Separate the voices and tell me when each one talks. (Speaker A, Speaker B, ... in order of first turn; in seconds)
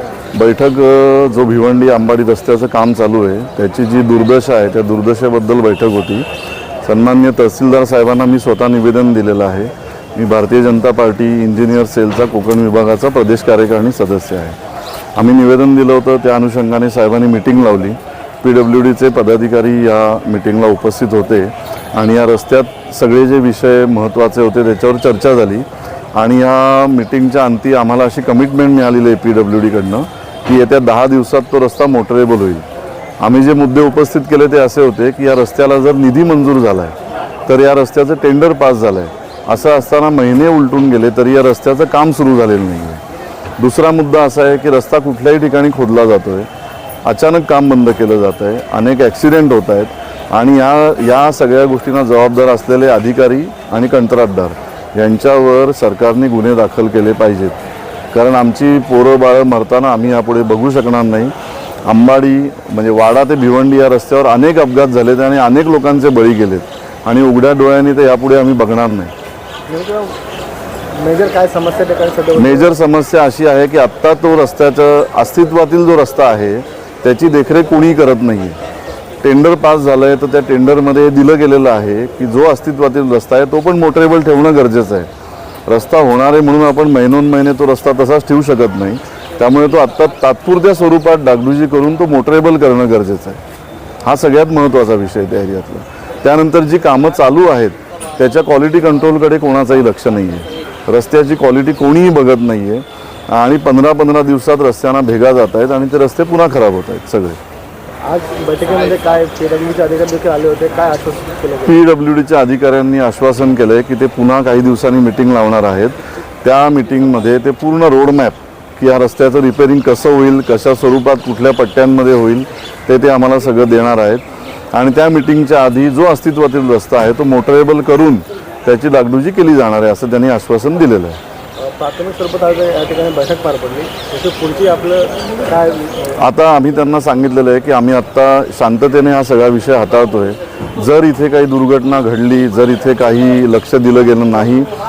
Speaker A: 0.3-6.2, 6.8-14.6, 15.2-32.6, 33.2-36.9, 37.5-43.0, 43.6-46.5, 47.0-57.6, 58.1-61.3, 61.9-69.1, 72.3-78.6, 79.2-85.1, 85.7-93.4, 94.0-107.4, 111.6-131.2, 136.2-144.7
Speaker B: 69.7-70.2, 70.9-72.7, 108.0-111.8, 131.6-136.2